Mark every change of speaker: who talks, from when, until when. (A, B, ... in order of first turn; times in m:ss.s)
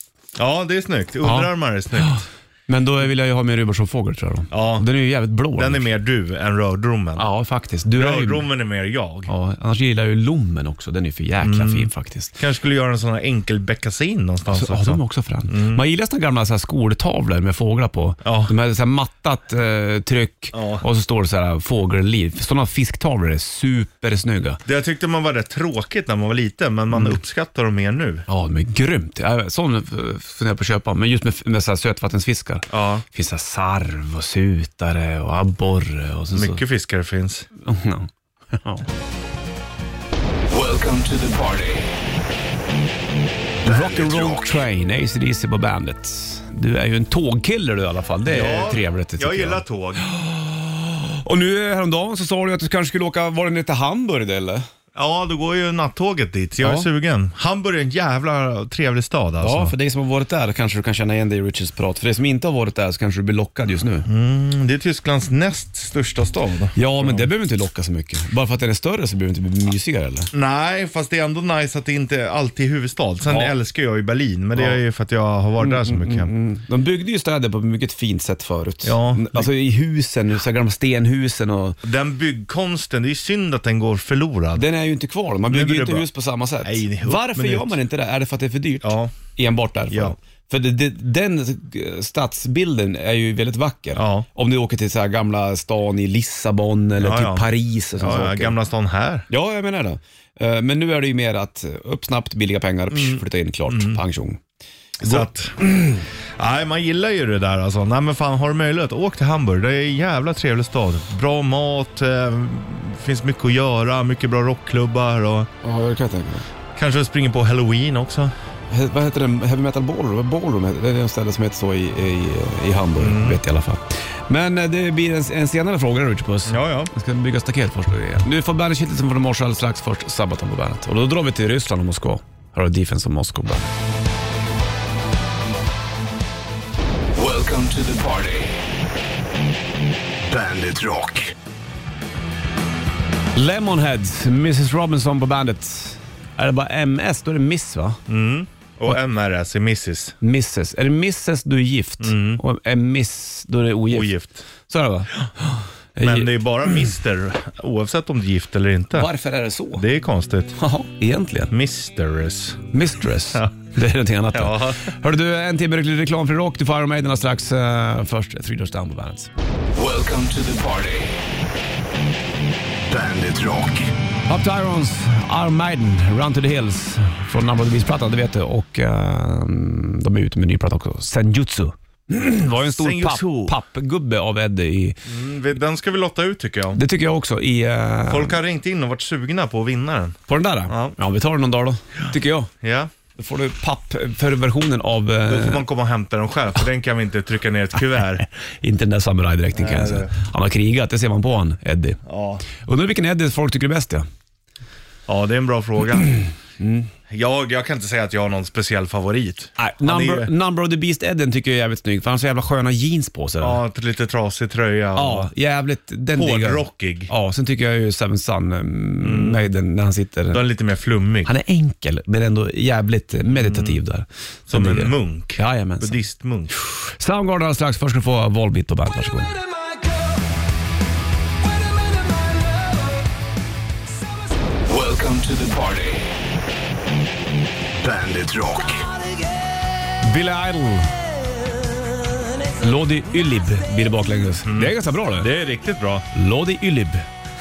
0:00.4-0:02.2 A
0:01.2-0:05.8 B
0:04.5-0:04.8 A
0:05.6-0:07.2 A
0:07.2-0:08.4 B
0:08.0-0:09.3 A
0:09.3-0:12.4 B
0:11.4-0:15.8 A
0:14.5-0:24.6 B
0:18.2-0:18.5 A
0:20.5-0:20.8 A
0:24.6-0:28.2 A
0:26.9-0:27.2 B
0:28.3-0:36.6 B
0:32.7-0:33.0 A
0:36.3-0:37.5 A
0:37.6-0:38.8 B
0:40.6-0:41.6 C
0:43.6-0:54.6 B
0:48.2-0:50.0 A
0:54.9-0:59.7 A
0:56.6-0:56.9 B
0:59.4-1:04.1 B
1:04.0-1:07.3 A
1:06.8-1:10.3 B
1:10.3-1:16.3 A
1:13.3-1:13.5 B
1:15.6-1:21.8 B
1:18.8-1:19.5 A
1:21.8-1:24.6 A
1:24.5-1:38.5 B
1:25.5-1:26.0 A
1:26.6-1:27.8 A
1:28.8-1:29.1 A
1:29.9-1:30.1 A
1:34.0-1:34.2 A
1:37.0-1:37.4 A
1:38.0-1:39.2 A
1:39.3-1:44.4 B
1:42.9-1:44.0 A
1:45.0-1:45.2 B
1:45.0-1:55.5 A
1:55.6-1:56.4 B
1:56.8-1:58.3 A
1:58.7-2:13.7 B
2:03.0-2:03.4 A
2:06.5-2:06.9 A
2:17.2-2:18.3 C
2:20.3-2:20.8 C
2:23.3-2:28.0 B
2:28.1-2:30.2 A
2:30.2-2:36.8 B
2:32.0-2:32.4 A
2:33.9-2:34.4 A
2:36.0-2:39.1 A
2:38.9-2:39.8 B
2:39.7-2:40.5 A
2:40.6-2:41.5 B
2:41.5-2:42.7 A
2:42.7-2:49.3 B
2:44.3-2:44.9 A
2:49.8-2:51.0 C
2:53.0-2:53.6 C
2:54.3-3:05.0 B
3:02.5-3:03.5 A
3:05.0-3:06.8 A
3:06.7-3:08.4 B
3:08.1-3:10.2 A
3:10.3-3:12.5 B
3:10.7-3:11.0 A
3:12.6-3:12.9 A
3:13.2-3:15.6 B
3:15.3-3:18.2 A
3:18.6-3:24.0 B
3:19.5-3:20.1 A
3:22.0-3:22.4 A
3:25.1-3:26.2 A
3:26.6-3:26.9 B
3:27.1-3:30.3 A
3:29.6-3:33.6 B
3:33.4-3:35.3 A
3:34.9-3:40.4 B
3:36.1-3:37.1 A
3:39.0-3:39.4 A
3:40.3-3:41.3 A
3:41.2-3:49.4 B
3:43.3-3:43.8 A
3:44.5-3:46.5 A
3:54.7-3:55.8 C
4:00.0-4:01.1 B
4:02.5-4:05.3 B
4:04.4-4:06.1 A
4:06.1-4:07.1 B